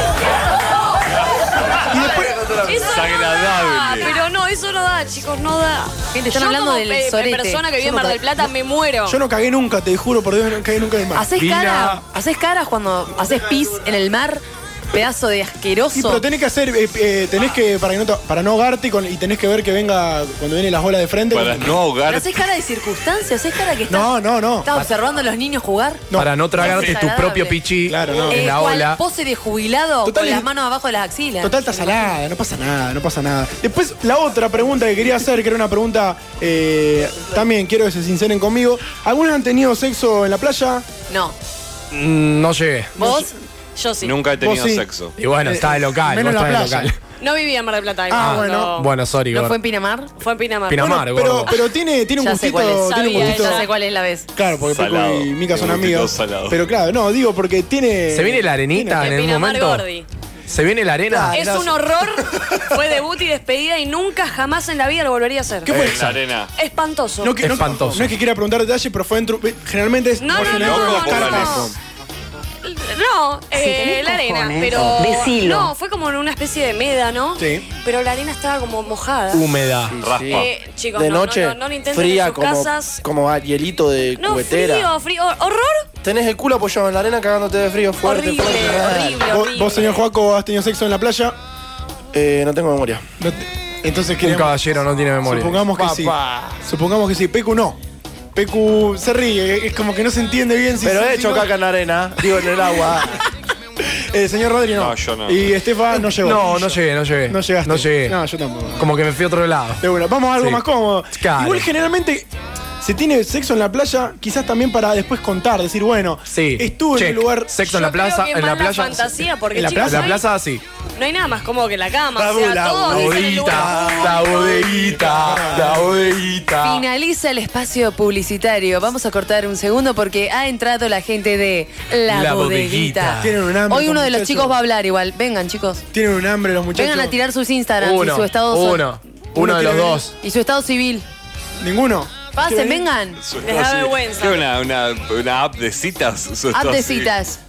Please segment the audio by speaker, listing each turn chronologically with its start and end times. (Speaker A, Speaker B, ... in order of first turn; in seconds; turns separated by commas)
Speaker A: 1.9-2.5, Speaker B: 2.6-9.2, Speaker C: 2.7-4.1, Speaker D: 6.1-7.7, Speaker A: 7.8-8.5, Speaker A: 9.0-11.3, Speaker D: 11.1-16.2, Speaker E: 11.3-12.0, Speaker A: 15.9-21.8, Speaker C: 21.3-22.4, Speaker D: 22.0-26.1, Speaker A: 23.9-24.7, Speaker A: 26.1-26.8, Speaker E: 26.1-29.0, Speaker C: 26.6-27.0, Speaker D: 26.7-27.6, Speaker A: 27.9-28.5, Speaker D: 28.3-31.7, Speaker A: 30.0-30.5, Speaker A: 31.4-40.9, Speaker D: 41.1-41.4, Speaker E: 41.9-42.9, Speaker A: 43.0-43.3, Speaker D: 43.0-43.3, Speaker B: 43.8-44.2, Speaker C: 44.0-45.1, Speaker A: 44.4-44.9, Speaker E: 45.2-46.9, Speaker A: 45.4-46.9, Speaker B: 47.2-48.9, Speaker A: 48.1-48.7, Speaker E: 48.1-49.5, Speaker D: 49.3-50.1, Speaker B: 50.2-51.6, Speaker E: 50.7-51.5, Speaker A: 50.8-53.7, Speaker D: 52.2-54.3, Speaker B: 52.8-53.7, Speaker A: 54.4-59.1, Speaker C: 54.6-56.6, Speaker E: 58.1-59.8, Speaker B: 59.0-60.1, Speaker E: 60.5-61.4, Speaker A: 61.1-62.5, Speaker B: 61.3-65.8, Speaker A: 65.7-66.2, Speaker C: 65.7-66.5, Speaker B: 66.5-67.5, Speaker A: 67.2-71.7, Speaker E: 67.4-68.1, Speaker B: 70.2-71.7, Speaker C: 70.3-71.7, Speaker B: 72.6-79.5, Speaker D: 73.5-75.7, Speaker A: 77.4-77.7, Speaker E: 79.3-80.0, Speaker F: 79.9-84.9, Speaker C: 80.0-80.5, Speaker B: 80.3-83.0, Speaker B: 84.2-85.8, Speaker F: 86.0-89.2, Speaker B: 88.0-90.0, Speaker A: 89.3-91.4, Speaker F: 92.1-93.1, Speaker A: 93.2-94.6, Speaker E: 94.2-96.2, Speaker A: 95.2-97.8, Speaker A: 98.3-101.5, Speaker F: 100.8-103.2, Speaker A: 103.8-108.8, Speaker C: 104.7-105.5, Speaker E: 106.1-108.2, Speaker E: 108.8-109.8, Speaker A: 109.8-112.3, Speaker E: 110.3-111.7, Speaker A: 112.8-117.5, Speaker E: 116.3-119.1, Speaker B: 117.6-120.2, Speaker A: 119.5-120.2, Speaker E: 119.8-120.6, Speaker B: 121.0-124.4, Speaker F: 122.2-124.2, Speaker E: 122.9-126.8, Speaker A: 122.9-125.9, Speaker D: 126.6-135.8, Speaker E: 132.1-133.3, Speaker A: 133.2-134.6, Speaker A: 135.9-137.2, Speaker D: 136.7-138.9, Speaker E: 137.8-140.1, Speaker A: 139.3-140.0, Speaker D: 140.1-141.1, Speaker A: 141.6-142.9, Speaker D: 142.3-143.2, Speaker C: 143.2-147.1, Speaker B: 143.4-144.4, Speaker D: 146.5-147.4